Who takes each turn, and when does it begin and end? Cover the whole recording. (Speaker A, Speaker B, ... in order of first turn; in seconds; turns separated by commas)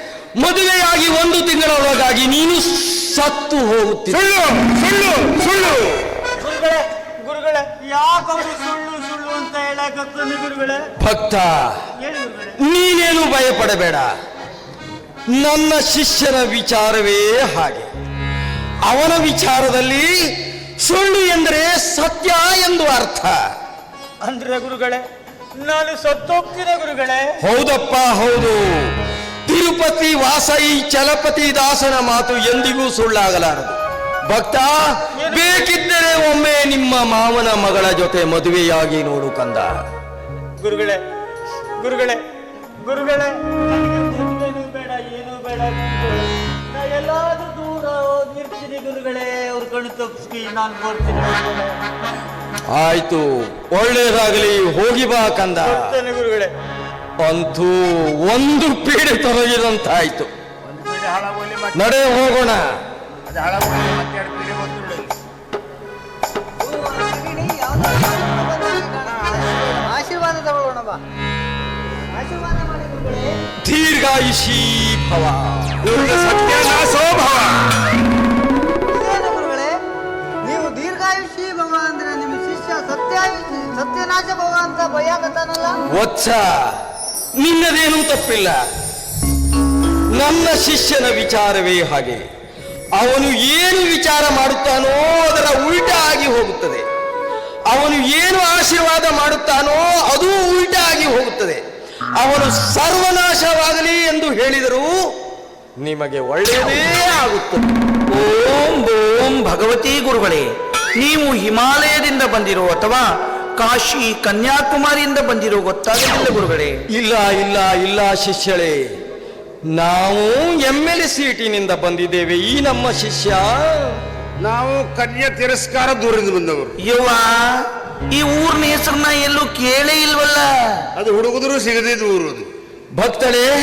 Speaker A: 0.4-4.3, Speaker B: 4.4-5.8, Speaker C: 6.3-10.9, Speaker A: 11.0-11.8, Speaker C: 12.0-12.6, Speaker A: 12.6-14.1, Speaker A: 15.3-17.9, Speaker A: 18.8-23.4, Speaker C: 24.2-25.0, Speaker C: 25.6-27.3, Speaker A: 27.4-39.8, Speaker C: 35.2-35.7, Speaker C: 40.6-41.0, Speaker C: 41.8-42.2, Speaker C: 42.8-51.7, Speaker A: 52.7-55.9, Speaker C: 55.6-56.5, Speaker A: 57.2-60.3, Speaker B: 60.6-61.9, Speaker A: 61.7-62.7, Speaker B: 63.3-65.1, Speaker D: 66.6-71.0, Speaker B: 69.1-69.8, Speaker D: 72.1-73.4, Speaker A: 73.6-76.0, Speaker B: 75.9-77.5, Speaker D: 78.9-79.8, Speaker D: 80.4-85.9, Speaker A: 85.9-86.8, Speaker A: 87.4-88.6, Speaker A: 90.1-92.2, Speaker A: 92.9-96.8, Speaker A: 97.7-101.6, Speaker A: 102.2-105.0, Speaker A: 105.8-107.7, Speaker E: 108.1-116.8, Speaker A: 116.9-118.9, Speaker A: 119.7-124.0, Speaker B: 124.4-126.8, Speaker E: 126.8-130.8, Speaker B: 130.9-132.5, Speaker A: 132.9-133.5